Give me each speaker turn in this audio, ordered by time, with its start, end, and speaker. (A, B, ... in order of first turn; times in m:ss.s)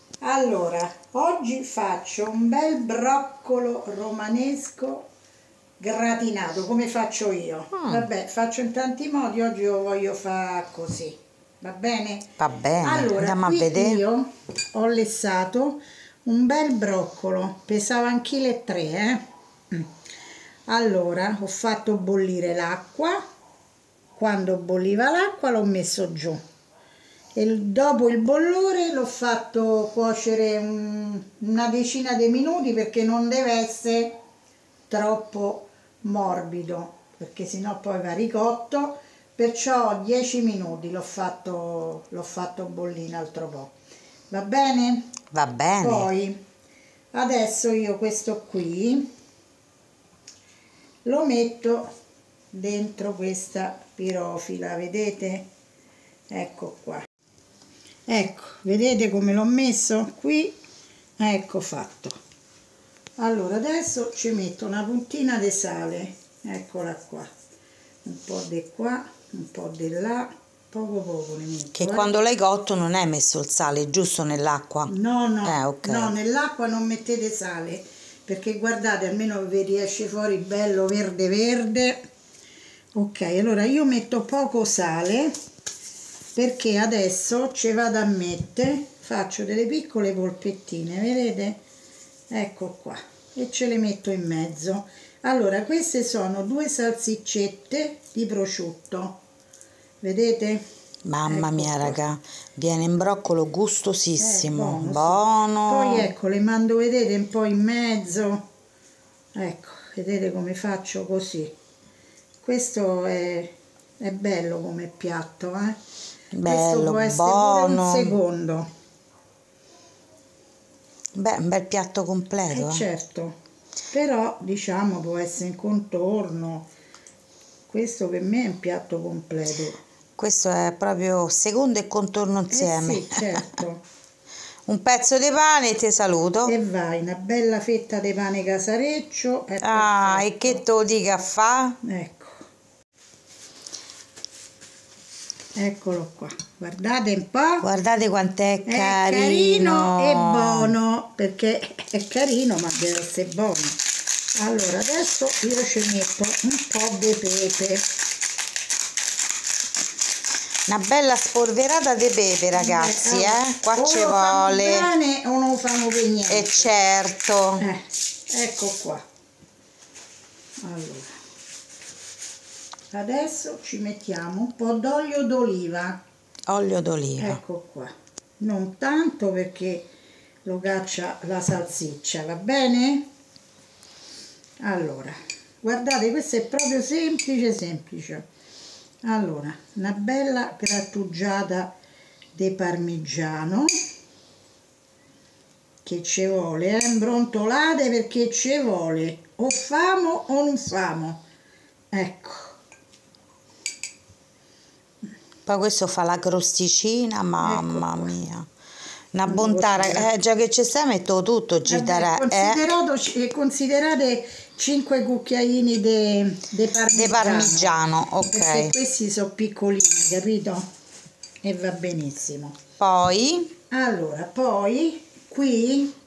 0:00.2-0:05.1 A
0:05.8-0:19.9 A
0:07.8-0:08.1 B
0:12.4-0:14.0 B
0:20.7-0:23.2 A
0:24.1-0:26.4 A
0:27.3-0:34.1 A
0:34.9-0:43.7 A
0:44.3-0:45.1 A
0:45.3-0:46.1 B
0:45.8-0:46.4 A
0:47.1-0:49.1 A
0:51.0-0:51.9 A
0:52.5-0:55.5 A
0:56.3-0:57.0 A
0:58.1-1:00.6 A
1:01.2-1:02.2 A
1:03.2-1:07.3 A
1:08.0-1:12.2 A
1:11.8-1:14.9 B
1:14.8-1:22.0 A
1:15.4-1:16.1 B
1:22.9-1:25.3 A
1:26.3-1:31.6 A
1:32.3-1:39.2 A
1:40.0-1:40.6 A
1:41.0-1:46.1 B
1:41.2-1:42.0 A
1:44.2-1:48.4 A
1:49.4-1:51.5 A
1:52.4-1:55.8 A
1:56.3-1:58.1 B
1:56.4-1:58.7 A
2:01.1-2:02.8 B
2:02.5-2:03.4 A
2:03.9-2:06.7 A
2:07.7-2:09.8 A
2:10.2-2:13.5 B
2:12.5-2:13.8 A
2:14.6-2:16.5 B
2:16.4-2:20.6 A
2:19.6-2:21.8 B
2:21.8-2:22.4 A
2:25.5-2:27.6 A
2:27.6-2:30.7 B
2:28.6-2:33.8 A
2:34.4-2:37.9 A
2:40.7-2:44.9 B
2:42.5-2:46.7 A
2:46.3-2:47.6 B
2:47.6-2:49.0 A
2:50.6-2:51.1 A
2:52.9-2:56.0 A
2:56.5-2:57.4 B
2:57.2-2:59.9 A
3:00.4-3:03.1 A
3:04.6-3:08.2 A
3:09.0-3:11.7 A
3:12.3-3:13.7 A
3:15.8-3:21.2 A
3:21.9-3:22.6 A
3:25.4-3:28.5 B
3:27.4-3:28.2 A
3:29.1-3:32.6 B
3:29.2-3:30.1 A
3:31.7-3:40.7 A
3:36.9-3:38.7 B
3:41.4-3:42.6 A
3:42.8-3:43.5 B
3:43.7-3:46.0 A